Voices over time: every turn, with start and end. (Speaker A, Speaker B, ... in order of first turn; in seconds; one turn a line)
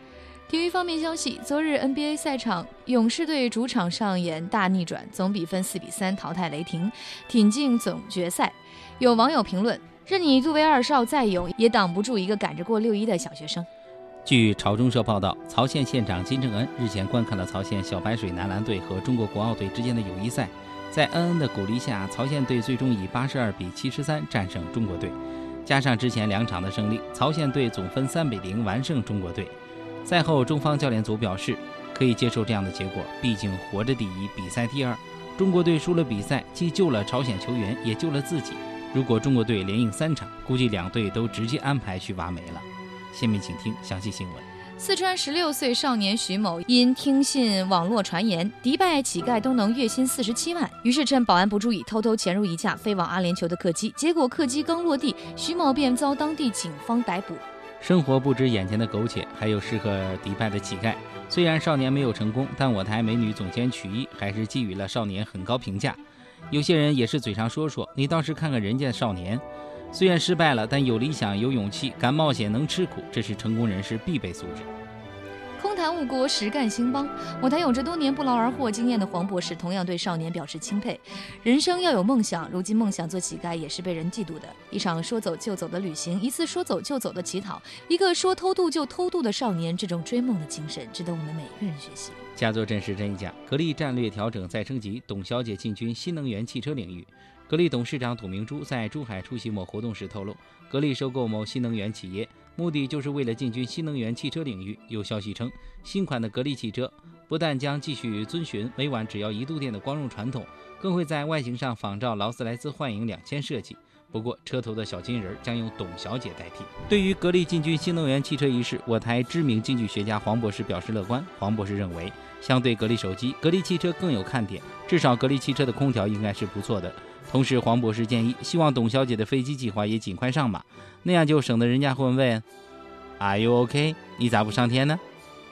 Speaker A: 0.5-13.7
Speaker B: 14.2-29.5
Speaker B: 30.1-44.5
Speaker A: 44.8-57.5
Speaker B: 57.8-74.7
Speaker A: 75.6-92.2
Speaker B: 92.4-132.4
Speaker B: 133.2-135.0